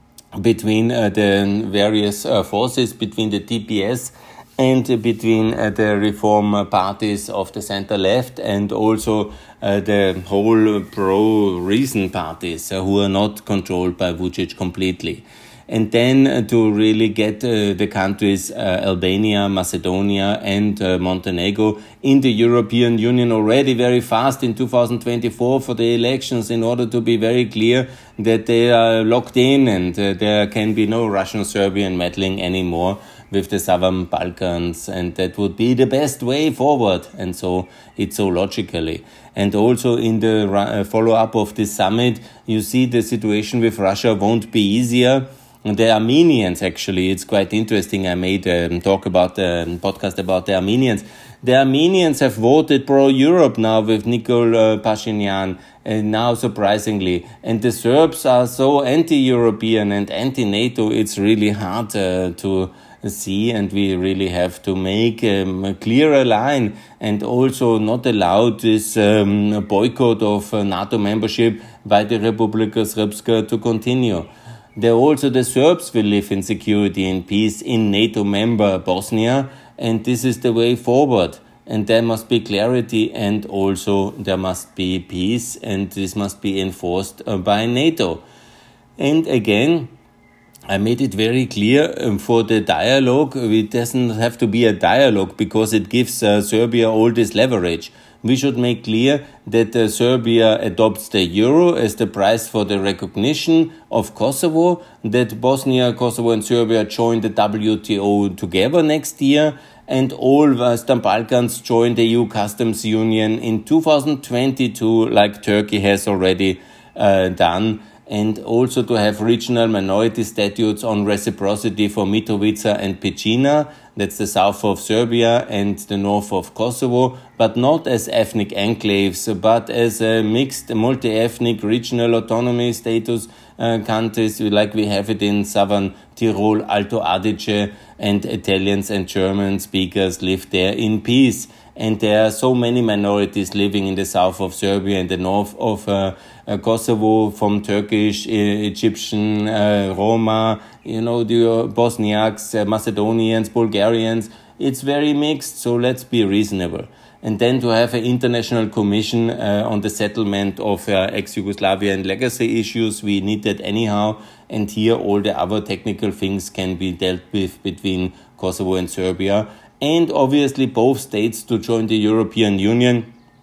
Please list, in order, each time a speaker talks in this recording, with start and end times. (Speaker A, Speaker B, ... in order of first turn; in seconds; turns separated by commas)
Speaker A: 0.3-88.2, Speaker A: 89.0-89.9, Speaker A: 90.7-173.1